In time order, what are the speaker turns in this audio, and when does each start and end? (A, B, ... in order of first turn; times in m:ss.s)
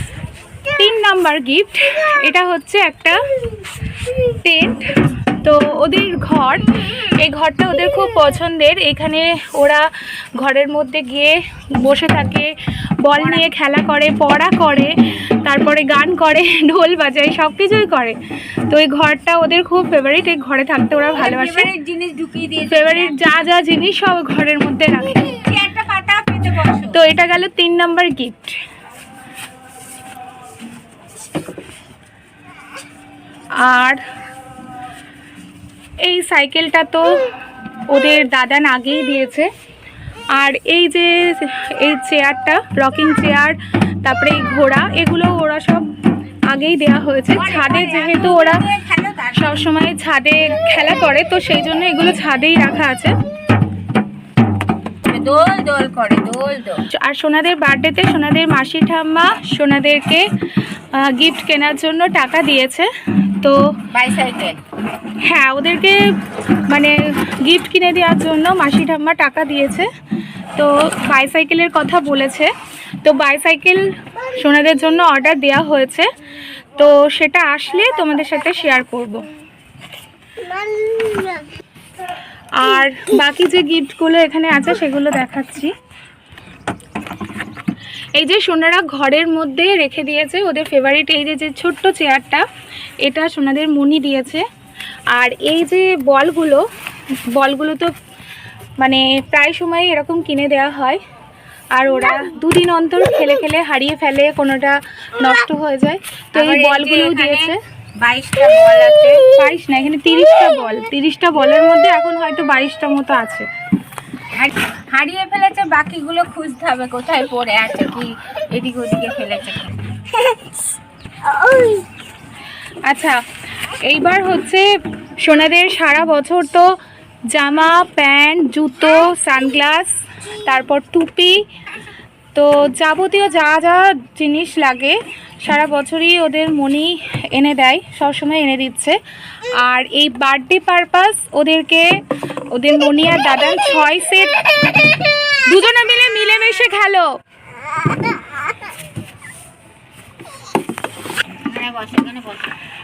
0:00.7-0:03.2 A
0:04.2-0:18.2 A
0:13.2-0:13.5 B
0:18.7-0:21.7 A
0:21.2-0:23.5 B
0:22.7-0:25.3 A
0:25.2-0:27.0 B
0:26.9-0:28.6 A
0:33.5-0:34.0 A
0:36.0-0:37.2 A
0:37.9-0:39.5 A
0:40.4-0:45.9 A
0:46.5-0:48.6 A
0:47.3-0:49.6 B
0:49.4-0:53.1 A
0:55.0-0:56.8 B
0:56.9-1:00.3 A
1:00.9-1:03.6 A
1:03.9-1:04.6 B
1:05.2-1:06.0 A
1:06.7-1:09.9 A
1:10.6-1:12.5 A
1:13.0-1:16.1 A
1:16.8-1:19.3 A
1:22.6-1:25.7 A
1:28.2-1:32.4 A
1:33.0-1:34.4 A
1:35.1-1:36.6 A
1:37.4-1:37.9 A
1:38.8-1:41.0 A
1:41.8-1:47.6 A
1:46.4-1:49.3 B
1:49.4-1:53.5 A
1:54.3-1:59.9 B
2:02.9-2:03.2 A
2:03.8-2:04.7 A
2:05.2-2:06.7 A
2:07.3-2:11.4 A
2:12.4-2:19.0 A
2:19.6-2:21.9 A
2:22.5-2:24.4 A
2:25.5-2:27.1 A
2:31.3-2:32.6 B